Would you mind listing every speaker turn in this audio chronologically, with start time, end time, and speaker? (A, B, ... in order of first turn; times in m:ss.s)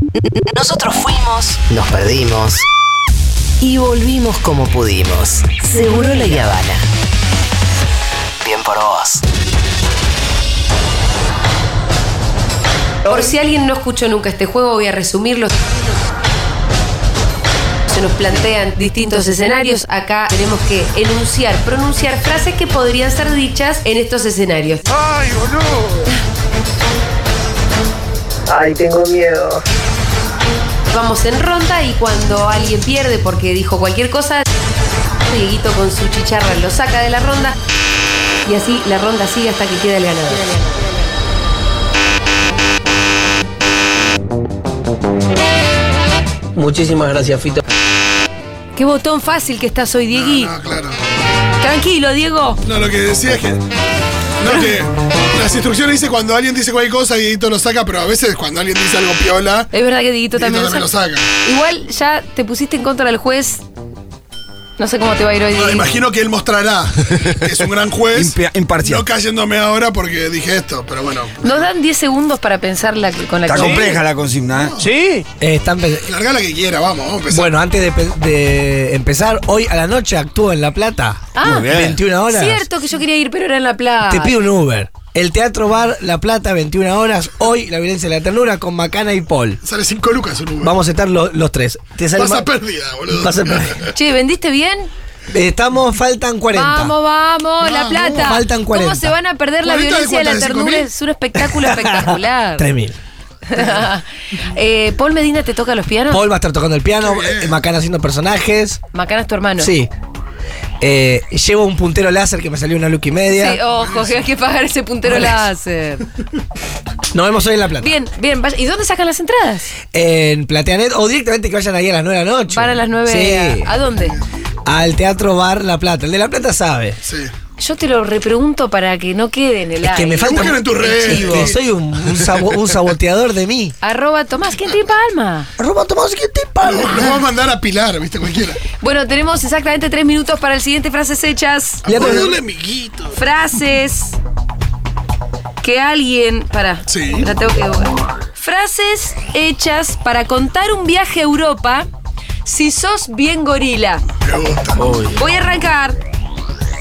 0:00.5-0:02.6 A
0:03.6-0:06.8 A
0:03.6-0:04.0 B
0:05.6-0:06.7 B
0:08.4-0:09.2 A
0:13.0-0:15.8 B
0:17.9-0:24.9 B
0:28.6-0:29.0 A
0:30.9-0:34.4 B
0:35.2-0:37.6 B
0:38.4-0:40.8 B
0:46.6-0:47.6 C
0:48.7-0:50.5 B
0:50.1-0:51.0 D
0:51.6-0:52.6 B
0:52.6-0:53.6 D
0:54.4-0:59.7 D
0:59.7-1:00.9 B
1:00.3-1:01.3 D
1:01.4-1:03.6 B
1:04.8-1:05.9 B
1:05.5-1:11.7 D
1:08.1-1:09.0 E
1:11.4-1:14.0 B
1:13.4-1:14.8 E
1:13.5-1:13.9 C
1:14.6-1:14.9 D
1:14.8-1:16.1 C
1:16.0-1:17.5 D
1:17.3-1:22.6 C
1:21.4-1:21.7 B
1:21.4-1:22.0 E
1:22.3-1:24.3 B
1:24.1-1:29.6 C
1:29.6-1:30.7 D
1:30.6-1:32.5 C
1:32.1-1:33.9 D
1:33.1-1:33.9 C
1:33.9-1:34.9 B
1:35.3-1:36.9 C
1:36.5-1:42.7 B
1:37.6-1:38.4 D
1:38.1-1:39.1 C
1:39.6-1:40.9 D
1:41.5-1:43.0 C
1:43.5-1:46.2 B
1:46.1-1:48.8 C
1:47.0-1:47.6 D
1:48.9-1:49.7 B
1:49.6-1:49.9 C
1:50.8-1:53.6 C
1:53.3-1:56.1 B
1:53.7-1:54.2 D
1:57.1-1:57.9 C
1:57.8-1:59.7 B
1:59.9-2:03.7 C
2:02.5-2:04.2 B
2:04.6-2:07.0 C
2:07.0-2:07.3 D
2:07.6-2:11.6 B
2:09.8-2:13.7 C
2:10.2-2:11.6 D
2:13.8-2:15.5 B
2:15.6-2:17.2 C
2:16.6-2:18.6 D
2:18.8-2:22.2 B
2:21.8-2:23.2 D
2:21.8-2:22.4 C
2:23.1-2:24.2 B
2:25.6-2:31.9 B
2:26.9-2:27.3 D
2:32.4-2:34.0 B
2:34.2-2:34.8 D
2:34.8-2:35.2 C
2:35.1-2:36.0 B